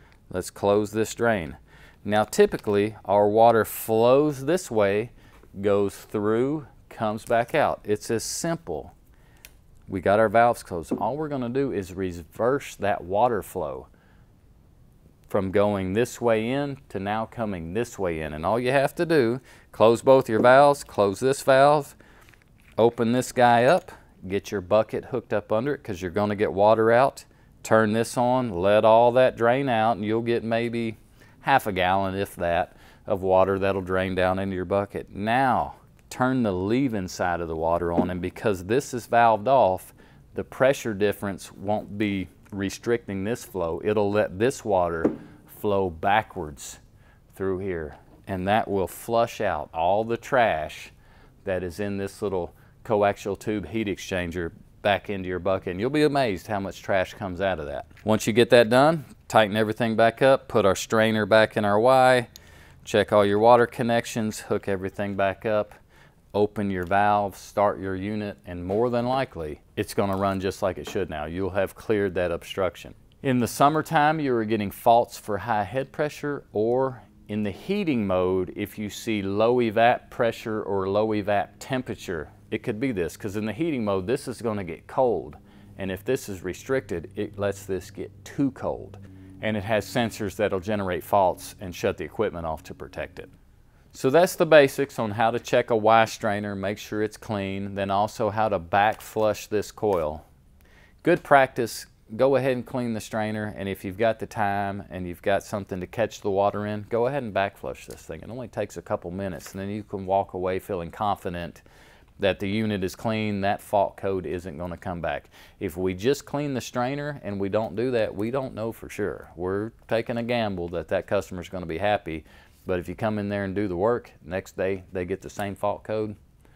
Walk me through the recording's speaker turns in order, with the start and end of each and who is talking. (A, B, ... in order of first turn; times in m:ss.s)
0:00.3-0:09.0 A
0:09.9-0:13.9 A
0:15.3-0:22.0 A
0:22.8-0:46.8 A
0:47.3-0:50.9 A
0:51.4-1:02.3 A
1:02.8-1:05.8 A
1:06.3-1:33.3 A
1:33.9-1:40.2 A
1:41.0-1:51.6 A
1:52.2-2:06.2 A